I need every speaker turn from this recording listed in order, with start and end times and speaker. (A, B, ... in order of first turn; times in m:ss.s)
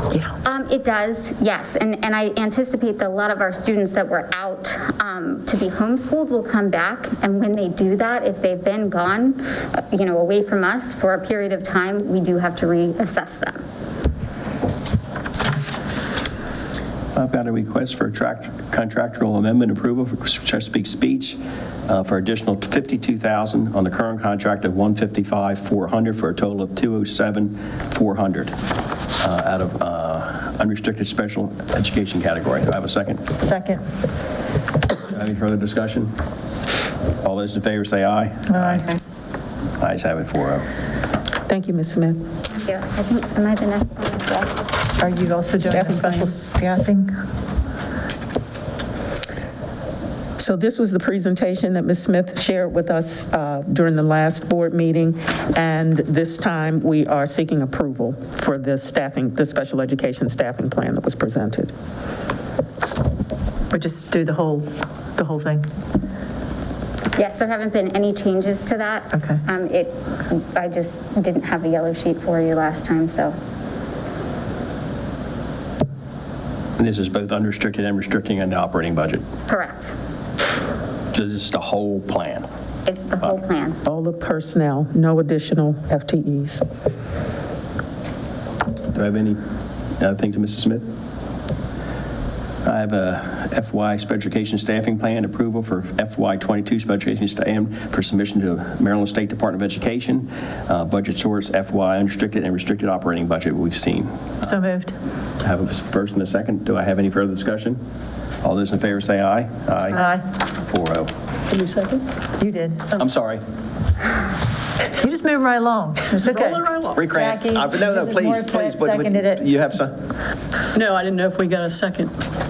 0:00.4-0:13.6 A
0:17.1-0:21.4 B
0:21.9-0:28.5 B
0:29.2-0:33.2 B
0:33.4-0:33.8 C
0:34.9-0:36.1 B
0:37.2-0:38.9 B
0:38.5-0:38.9 C
0:39.8-0:40.6 B
0:41.5-0:42.2 D
0:42.5-0:44.7 A
0:45.0-0:47.1 C
0:45.7-0:46.3 D
0:50.4-1:01.7 D
1:03.7-1:05.6 C
1:07.2-1:13.4 A
1:16.8-1:19.2 B
1:19.5-1:19.9 A
1:21.1-1:22.4 B
1:22.8-1:23.8 A
1:23.8-1:26.7 D
1:28.9-1:29.4 B
1:30.0-1:30.8 B
1:32.6-1:44.3 B
1:44.4-1:45.0 C
1:45.4-1:47.8 B
1:48.4-1:50.1 B
1:49.9-1:50.2 C
1:50.7-1:51.1 B
1:51.5-1:52.0 E
1:52.4-1:52.9 C
1:53.0-1:53.4 B
1:55.0-1:59.4 C
1:56.2-1:57.0 E
1:56.9-2:00.0 B
2:00.7-2:02.1 E